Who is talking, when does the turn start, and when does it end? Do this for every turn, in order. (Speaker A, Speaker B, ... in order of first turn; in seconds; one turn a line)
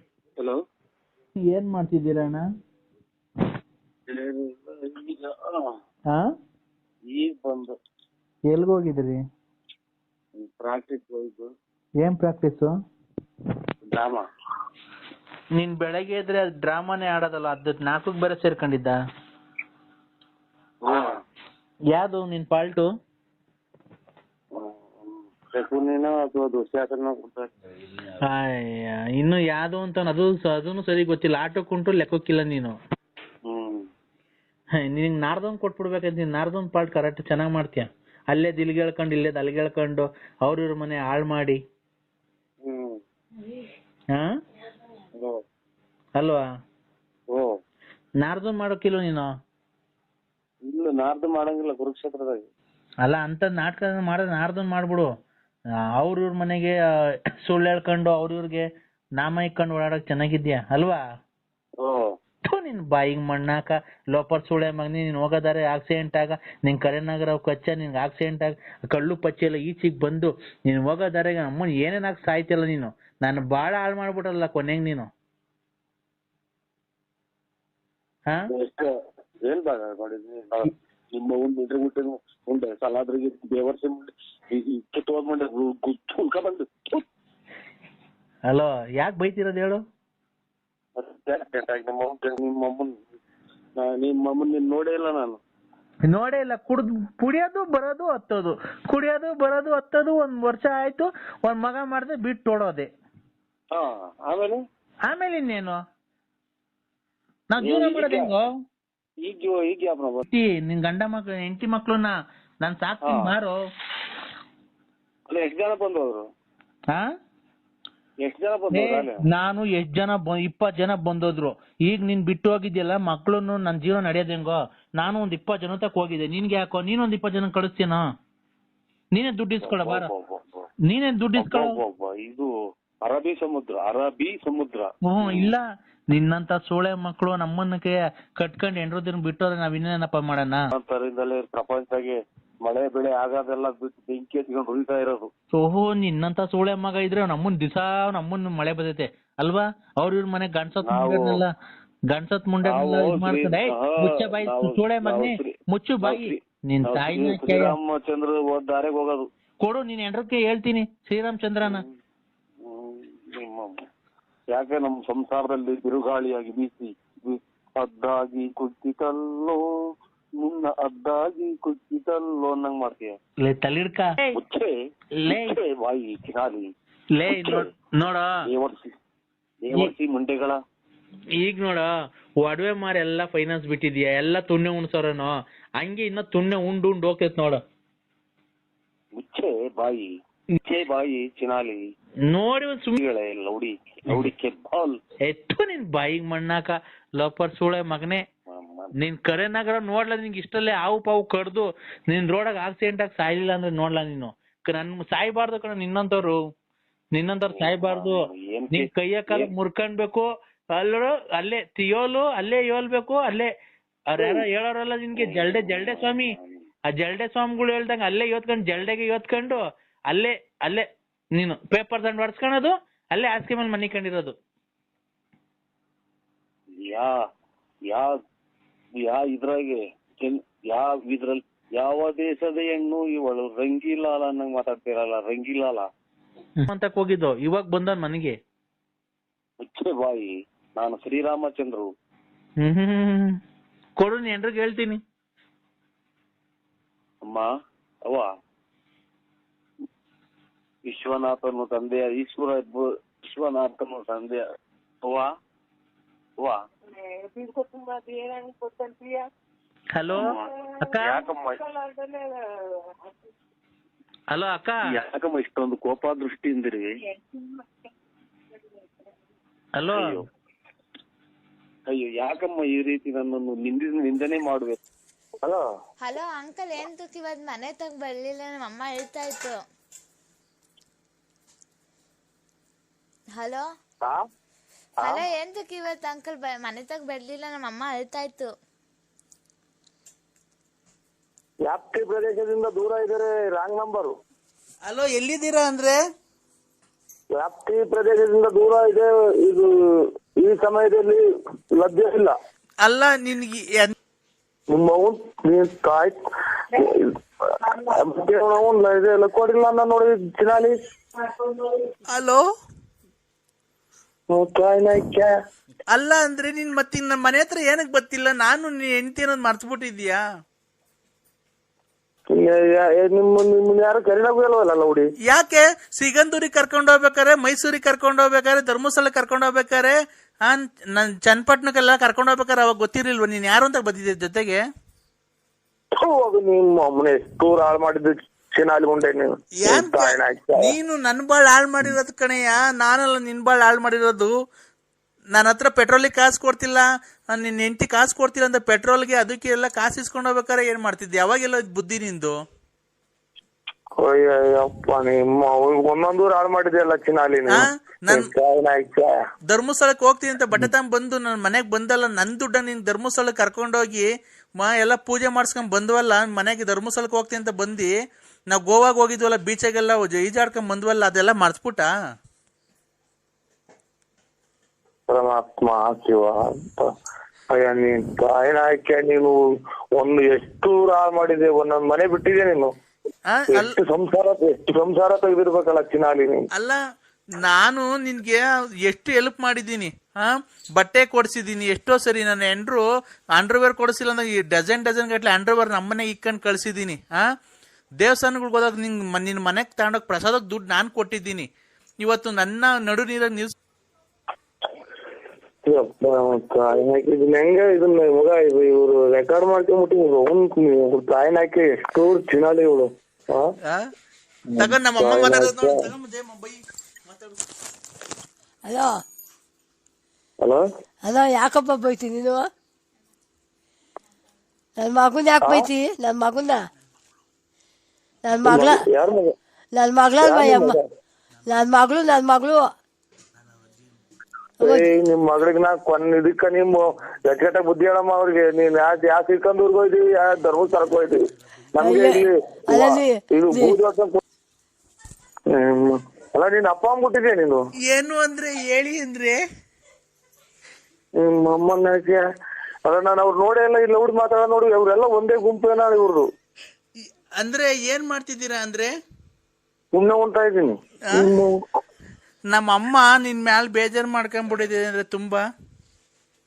Speaker A: 1.4-2.4
Speaker B: 4.1-5.7
Speaker B: 7.1-7.8
Speaker A: 8.5-9.2
Speaker B: 10.4-11.5
Speaker A: 12.0-12.7
Speaker B: 13.8-14.3
Speaker A: 15.5-19.0
Speaker B: 20.8-21.2
Speaker A: 21.9-22.9
Speaker B: 24.5-27.5
Speaker A: 28.2-32.8
Speaker B: 33.5-33.9
Speaker A: 34.8-41.6
Speaker B: 42.6-43.0
Speaker A: 46.1-46.4
Speaker A: 48.2-49.3
Speaker B: 50.7-52.5
Speaker A: 53.0-55.1
Speaker A: 56.0-56.8
Speaker A: 57.4-61.0
Speaker B: 61.8-62.1
Speaker A: 62.5-75.1
Speaker B: 78.5-78.9
Speaker B: 79.5-87.0
Speaker A: 88.5-89.8
Speaker B: 91.0-93.0
Speaker B: 93.8-95.4
Speaker A: 96.1-102.9
Speaker B: 103.7-104.6
Speaker A: 105.0-105.8
Speaker A: 107.5-108.6
Speaker B: 107.6-108.3
Speaker B: 109.2-110.2
Speaker A: 110.2-113.6
Speaker B: 113.0-113.3
Speaker B: 115.3-116.2
Speaker B: 118.2-119.2
Speaker A: 118.7-128.1
Speaker A: 129.1-130.1
Speaker B: 129.6-130.7
Speaker A: 130.9-131.7
Speaker B: 131.3-132.5
Speaker B: 133.0-135.5
Speaker A: 135.0-140.7
Speaker B: 140.7-145.3
Speaker A: 145.5-151.5
Speaker B: 150.8-151.4
Speaker A: 152.1-157.8
Speaker B: 152.6-159.3
Speaker A: 159.6-161.8
Speaker B: 161.6-161.9
Speaker B: 162.6-163.8
Speaker B: 164.5-169.6
Speaker B: 170.4-173.2
Speaker A: 173.4-174.4
Speaker B: 174.3-174.7
Speaker A: 175.2-175.6
Speaker B: 175.3-176.7
Speaker A: 177.1-178.3
Speaker B: 177.3-177.6
Speaker B: 178.4-178.9
Speaker B: 179.6-180.6
Speaker A: 181.4-187.6
Speaker B: 189.2-190.1
Speaker B: 190.6-191.8
Speaker A: 192.3-193.0
Speaker B: 192.9-195.0
Speaker A: 195.2-198.2
Speaker B: 198.5-198.9
Speaker A: 199.0-206.4
Speaker A: 207.1-213.5
Speaker B: 207.5-209.5
Speaker A: 214.1-216.4
Speaker B: 214.2-214.4
Speaker B: 215.2-216.6
Speaker A: 216.9-224.3
Speaker B: 226.8-227.2
Speaker B: 227.9-228.2
Speaker B: 229.0-235.9
Speaker A: 236.6-238.3
Speaker B: 239.6-241.9
Speaker A: 242.6-243.4
Speaker A: 244.0-245.0
Speaker B: 250.9-254.4
Speaker B: 255.0-255.3
Speaker B: 257.5-259.0
Speaker A: 259.9-261.2
Speaker B: 260.1-261.7
Speaker A: 264.3-264.9
Speaker B: 264.9-267.0
Speaker A: 269.8-270.2
Speaker B: 269.9-270.2
Speaker B: 271.9-274.8
Speaker C: 276.0-279.6
Speaker C: 283.4-283.7
Speaker C: 285.0-288.5
Speaker D: 291.6-294.2
Speaker E: 294.9-296.0
Speaker D: 297.3-301.2
Speaker D: 301.7-302.4
Speaker E: 302.8-303.9
Speaker D: 304.7-306.2
Speaker D: 306.7-307.1
Speaker D: 307.7-310.8
Speaker E: 312.1-312.4
Speaker D: 314.3-315.3
Speaker E: 315.9-320.2
Speaker D: 322.3-325.1
Speaker E: 325.2-334.6
Speaker D: 336.0-340.7
Speaker E: 339.6-344.3
Speaker E: 345.3-352.3
Speaker D: 354.0-359.2
Speaker E: 357.5-358.3
Speaker E: 359.5-367.9
Speaker E: 368.5-371.9
Speaker D: 375.1-376.9
Speaker D: 377.5-379.4
Speaker D: 379.9-382.7
Speaker E: 383.3-383.7
Speaker D: 383.5-386.5
Speaker E: 386.5-386.8
Speaker E: 387.4-397.2
Speaker E: 398.0-401.5
Speaker E: 402.0-403.5
Speaker D: 405.6-413.5
Speaker E: 413.6-413.9
Speaker D: 414.6-415.9
Speaker E: 414.6-417.4
Speaker F: 418.6-418.9
Speaker F: 421.1-422.5
Speaker F: 424.8-426.6
Speaker D: 425.4-425.7
Speaker F: 428.3-428.8
Speaker D: 428.4-429.3
Speaker F: 429.8-430.8
Speaker D: 430.2-430.8
Speaker F: 431.5-432.7
Speaker D: 434.6-441.2
Speaker F: 434.6-434.9
Speaker D: 441.7-444.2
Speaker F: 441.8-443.8
Speaker D: 445.5-447.6
Speaker E: 447.9-449.4
Speaker D: 451.2-452.2
Speaker D: 452.8-456.2
Speaker E: 457.0-458.9
Speaker D: 459.9-461.6
Speaker E: 462.5-465.4